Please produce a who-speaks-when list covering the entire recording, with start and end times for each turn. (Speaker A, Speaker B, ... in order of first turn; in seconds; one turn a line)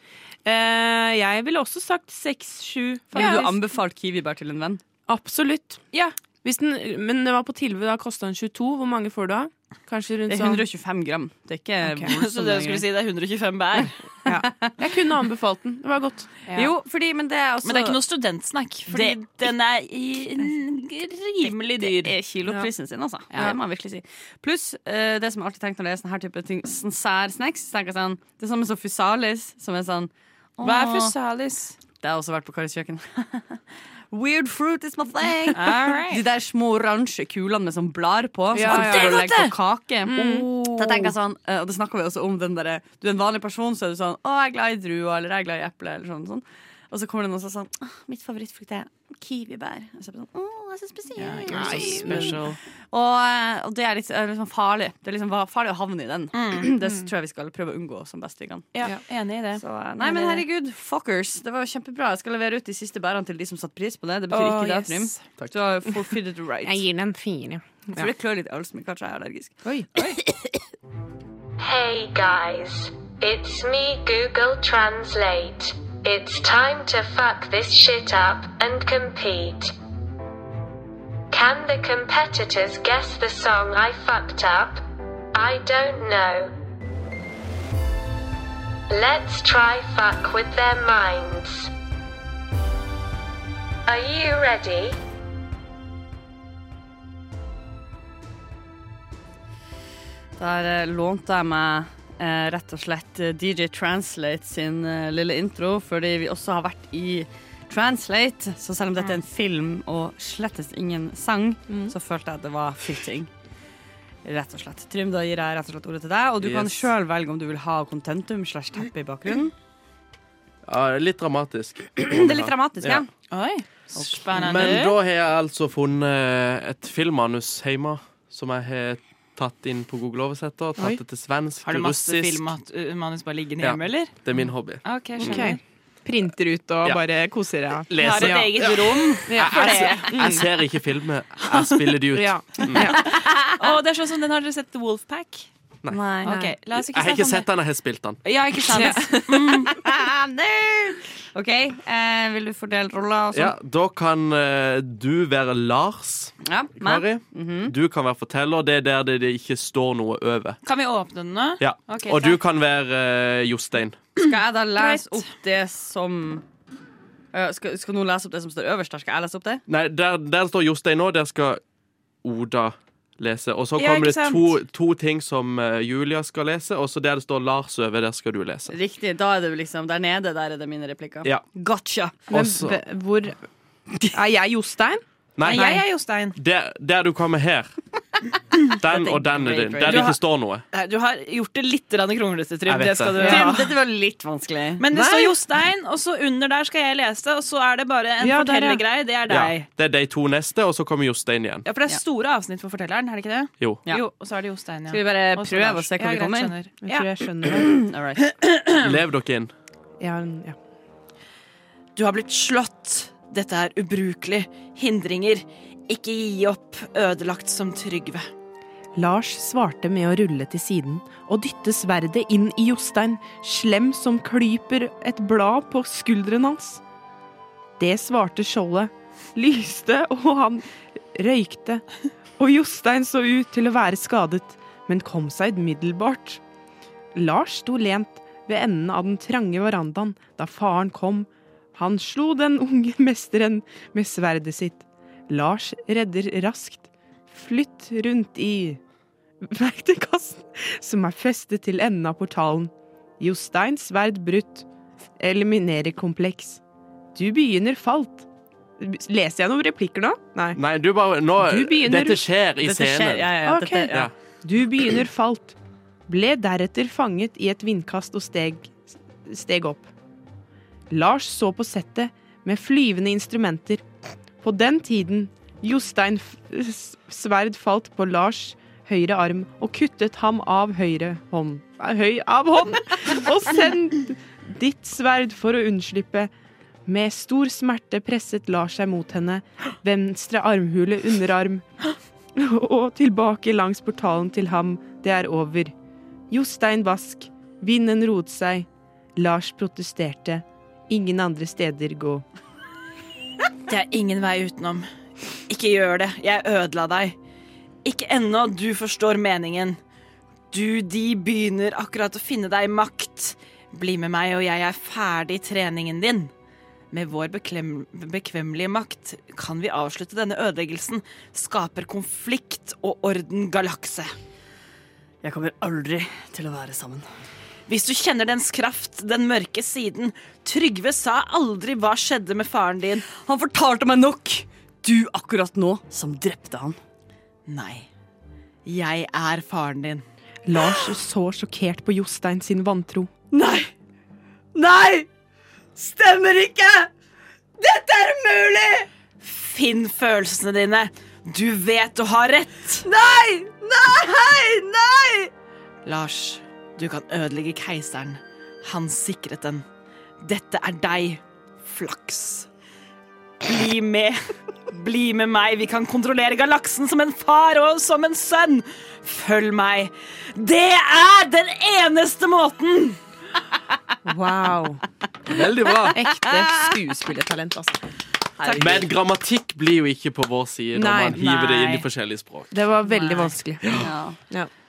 Speaker A: 0.5-3.6
Speaker B: 3.1-4.8
Speaker C: 3.1-3.5
Speaker A: 5.1-5.8
Speaker A: 6.4-10.7
Speaker B: 10.3-12.8
Speaker A: 11.8-12.1
Speaker C: 12.1-14.0
Speaker A: 14.3-16.7
Speaker B: 14.3-14.7
Speaker B: 16.5-18.0
Speaker C: 17.6-22.1
Speaker B: 18.9-19.5
Speaker B: 21.5-31.1
Speaker C: 30.6-31.8
Speaker B: 32.0-58.7
Speaker C: 35.5-36.2
Speaker A: 38.5-39.5
Speaker C: 38.6-39.5
Speaker A: 40.1-41.1
Speaker C: 51.2-52.6
Speaker A: 51.5-52.4
Speaker C: 56.3-56.7
Speaker C: 58.7-60.4
Speaker B: 59.6-66.8
Speaker C: 64.4-65.1
Speaker A: 64.4-64.8
Speaker A: 66.6-68.1
Speaker B: 67.9-70.5
Speaker A: 69.6-70.0
Speaker D: 71.6-79.7
Speaker D: 81.3-84.8
Speaker D: 85.3-86.5
Speaker D: 88.9-91.7
Speaker D: 93.9-95.0
Speaker B: 100.4-113.3
Speaker A: 111.7-111.9
Speaker B: 114.2-119.5
Speaker E: 116.4-116.9
Speaker E: 120.7-123.0
Speaker B: 122.0-123.1
Speaker C: 123.3-125.0
Speaker B: 124.0-124.7
Speaker E: 124.3-132.5
Speaker C: 131.7-134.2
Speaker E: 133.6-135.5
Speaker C: 134.8-135.6
Speaker A: 135.2-138.7
Speaker E: 137.9-143.0
Speaker C: 138.0-140.3
Speaker A: 139.3-140.4
Speaker A: 142.1-143.2
Speaker C: 142.9-145.5
Speaker B: 145.9-146.3
Speaker C: 146.2-147.5
Speaker A: 146.3-146.5
Speaker E: 146.8-148.2
Speaker C: 148.2-149.7
Speaker A: 148.7-149.6
Speaker B: 149.7-153.5
Speaker E: 153.3-160.6
Speaker B: 156.4-157.7
Speaker C: 160.7-162.4
Speaker E: 161.6-164.0
Speaker B: 164.2-166.4
Speaker C: 164.8-165.1
Speaker B: 167.3-169.6
Speaker E: 169.7-171.6
Speaker E: 172.2-178.8
Speaker C: 173.8-174.6
Speaker B: 178.7-182.2
Speaker E: 182.3-182.8
Speaker A: 182.3-183.4
Speaker A: 184.1-185.8
Speaker E: 185.4-185.7
Speaker C: 185.5-186.4
Speaker E: 186.3-187.7
Speaker E: 188.7-190.6
Speaker B: 188.8-190.2
Speaker C: 189.8-190.2
Speaker C: 190.7-193.7
Speaker E: 192.7-193.3
Speaker A: 193.2-193.5
Speaker B: 193.2-194.8
Speaker C: 194.8-199.7
Speaker A: 194.9-195.3
Speaker A: 198.2-198.8
Speaker E: 199.3-201.7
Speaker C: 201.7-207.1
Speaker B: 204.9-206.6
Speaker A: 206.8-207.8
Speaker B: 207.5-208.2
Speaker C: 208.3-208.9
Speaker E: 208.8-209.5
Speaker A: 210.0-210.6
Speaker C: 212.0-218.3
Speaker A: 219.0-226.8
Speaker A: 227.8-231.8
Speaker A: 232.4-236.4
Speaker A: 237.2-248.8
Speaker A: 249.4-254.7
Speaker A: 255.2-256.6
Speaker A: 257.1-258.3
Speaker A: 258.8-260.6
Speaker E: 260.6-263.4
Speaker A: 261.4-262.3
Speaker B: 262.6-264.1
Speaker A: 263.4-265.6
Speaker A: 266.1-269.9
Speaker A: 270.9-273.8
Speaker A: 274.4-286.3
Speaker A: 286.9-291.7
Speaker A: 292.4-295.7
Speaker A: 296.3-302.2
Speaker C: 303.7-304.9
Speaker C: 305.5-307.2
Speaker C: 307.9-309.8
Speaker C: 310.5-316.3
Speaker C: 316.9-324.1
Speaker B: 325.2-327.1
Speaker C: 327.7-333.1
Speaker B: 333.2-336.8
Speaker C: 337.5-337.9
Speaker C: 338.6-340.1
Speaker A: 340.5-343.1
Speaker B: 343.3-343.7
Speaker B: 344.6-345.1
Speaker B: 345.8-346.9
Speaker B: 347.6-348.9
Speaker C: 349.2-352.9
Speaker B: 352.8-355.3
Speaker C: 355.9-359.6
Speaker C: 360.2-362.5
Speaker C: 363.4-373.0
Speaker A: 374.1-374.8
Speaker E: 375.3-376.0
Speaker A: 375.9-377.8
Speaker B: 378.4-378.8
Speaker C: 378.4-378.9
Speaker E: 378.6-382.6
Speaker A: 380.7-381.2
Speaker C: 381.2-381.9
Speaker A: 382.5-383.7
Speaker C: 382.9-383.3
Speaker E: 383.6-383.9
Speaker B: 383.8-384.2